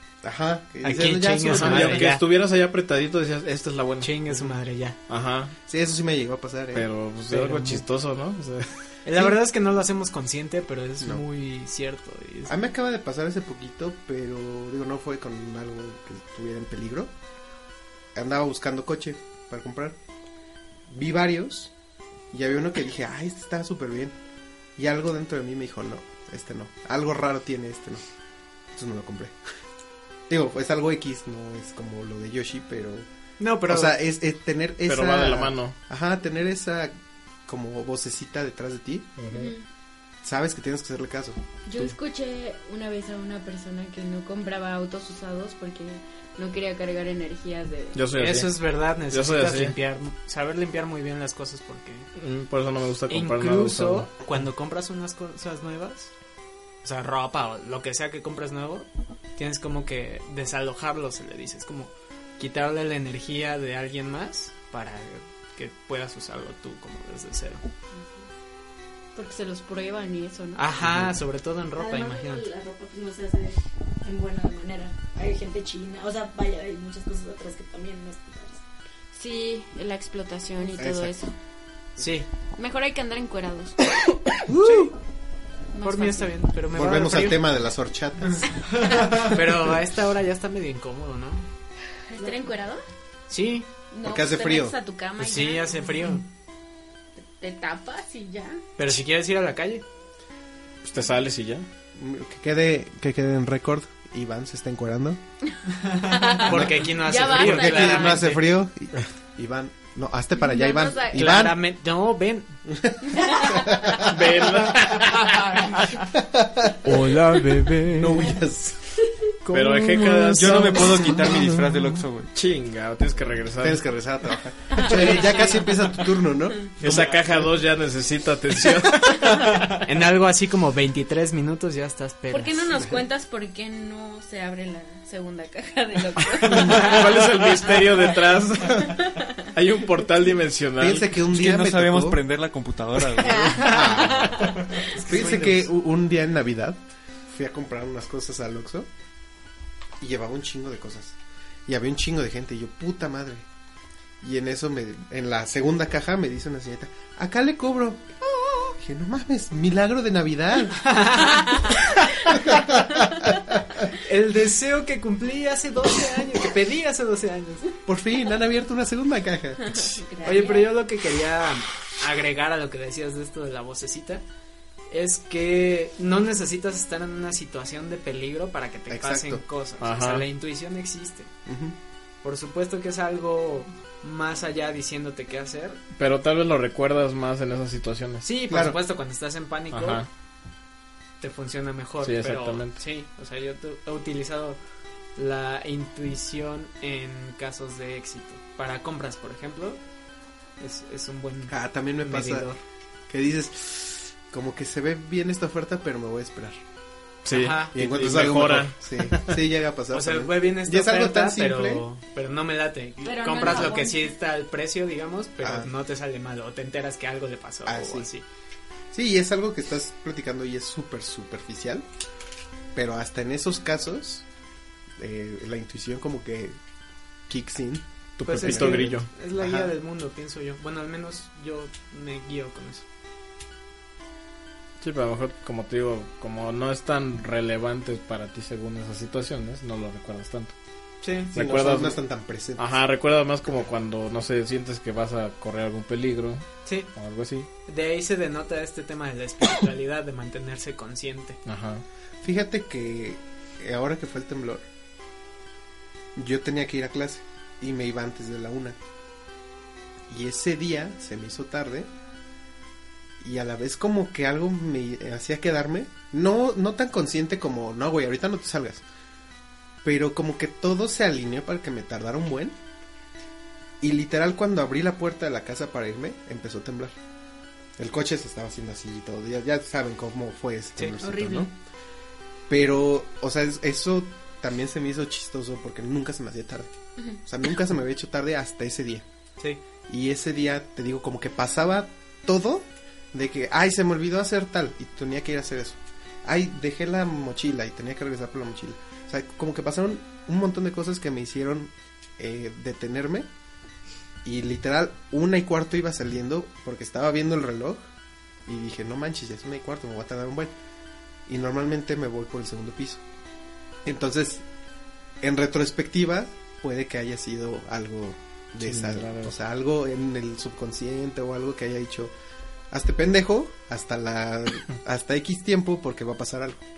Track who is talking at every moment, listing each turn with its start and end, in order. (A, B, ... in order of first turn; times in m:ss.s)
0:00.2-0:02.1 A
0:00.8-0:02.2 B
0:01.5-0:04.1 C
0:04.0-0:05.0 B
0:04.3-0:04.6 A
0:05.1-0:05.5 C
0:05.7-0:06.9 A
0:06.7-0:08.8 C
0:07.3-0:07.8 B
0:09.0-0:12.6 B
0:12.5-0:17.1 A
0:18.1-0:20.0 A
0:20.9-0:21.7 A
0:22.3-0:24.1 A
0:24.8-0:28.0 A
0:28.7-0:29.4 A
0:30.3-0:33.1 A
0:33.4-0:34.0 B
0:33.6-0:36.9 A
0:34.8-0:35.7 C
0:37.5-0:39.1 A
0:39.2-0:39.5 C
0:39.3-0:39.6 D
0:40.2-0:41.4 A
0:41.6-0:48.0 D
0:47.9-0:48.5 C
0:48.2-0:52.1 B
0:49.1-0:49.8 C
0:52.2-0:54.1 C
0:53.1-0:56.1 B
0:56.8-1:07.6 B
1:07.9-1:08.2 E
1:09.1-1:10.6 D
1:10.6-1:12.4 B
1:11.7-1:18.6 E
1:19.1-1:21.3 D
1:20.8-1:21.1 A
1:22.0-1:22.3 B
1:22.6-1:23.8 D
1:24.5-1:24.9 B
1:25.7-1:26.4 D
1:25.8-1:27.4 B
1:26.7-1:28.5 A
1:29.1-1:31.5 B
1:32.1-1:32.8 D
1:32.2-1:32.5 E
1:33.3-1:33.6 B
1:33.9-1:36.1 D
1:34.0-1:34.8 A
1:35.2-1:36.2 B
1:37.2-1:38.6 D
1:38.8-1:39.8 B
1:40.8-1:41.6 C
1:42.0-1:45.2 A
1:46.0-1:48.5 B
1:46.0-1:48.2 D
1:46.4-1:51.6 A
1:50.4-1:51.4 D
1:51.1-1:52.5 B
1:52.7-1:54.2 A
1:53.1-1:53.6 D
1:54.0-1:55.6 C
1:56.1-1:57.0 A
1:56.8-1:58.3 B
1:58.0-1:58.9 A
1:59.4-2:02.0 B
1:59.5-2:01.0 C
2:00.3-2:02.3 F
2:02.3-2:03.8 C
2:03.6-2:06.7 A
2:04.8-2:05.4 D
2:06.8-2:09.8 C
2:09.8-2:12.7 B
2:12.3-2:17.4 D
2:16.4-2:21.2 C
2:20.8-2:22.2 A
2:21.3-2:23.8 F
2:23.6-2:28.9 A
2:24.9-2:25.7 B
2:30.0-2:31.2 A
2:31.7-2:33.4 A
2:34.2-2:38.0 A
2:38.8-2:40.9 A
2:40.8-2:41.6 B
2:42.3-2:43.6 A
2:44.0-2:47.7 B
2:47.8-2:49.9 A
2:49.6-2:50.6 D
2:50.2-2:54.2 B
2:54.9-3:01.3 B
2:58.9-2:59.4 A
2:59.8-3:00.2 C
3:01.4-3:01.8 A
3:02.2-3:05.8 B
3:06.0-3:08.2 C
3:08.2-3:10.0 B
3:08.5-3:08.8 A
3:09.7-3:10.1 C
3:11.2-3:14.6 B
3:12.0-3:12.8 C
3:15.2-3:19.8 B
3:20.6-3:22.6 B
3:21.5-3:22.5 A
3:23.1-3:26.6 A
3:27.2-3:29.4 C
3:27.3-3:27.7 B
3:27.7-3:31.8 A
3:29.9-3:38.2 B
3:33.0-3:34.1 D
3:33.4-3:33.7 A
3:35.4-3:35.7 A
3:37.6-3:38.1 A
3:38.9-3:41.8 A
3:42.7-3:44.2 A
3:45.0-3:46.6 A
3:47.3-3:49.7 A
3:48.2-3:49.1 C
3:48.2-3:52.8 B
3:54.8-4:00.5 C
4:01.0-4:01.3 B
4:01.3-4:02.6 A
4:01.3-4:02.0 C
4:02.6-4:07.5 C
4:07.6-4:11.4 B
4:11.4-4:11.8 C
4:12.2-4:14.6 A
4:16.1-4:18.8 A
4:20.1-4:21.9 A
4:23.2-4:28.8 A
4:29.8-4:32.6 A
4:33.8-4:37.0 A
4:37.8-4:41.5 A
4:41.0-4:41.5 D
4:42.5-4:46.7 A
4:47.2-4:49.0 A
4:49.9-5:03.3 A
5:04.2-5:07.8 A
5:08.4-5:10.5 A
5:11.3-5:13.0 A
5:13.8-5:14.4 A
5:15.2-5:22.1 A
5:18.6-5:19.3 C
5:22.7-5:26.6 A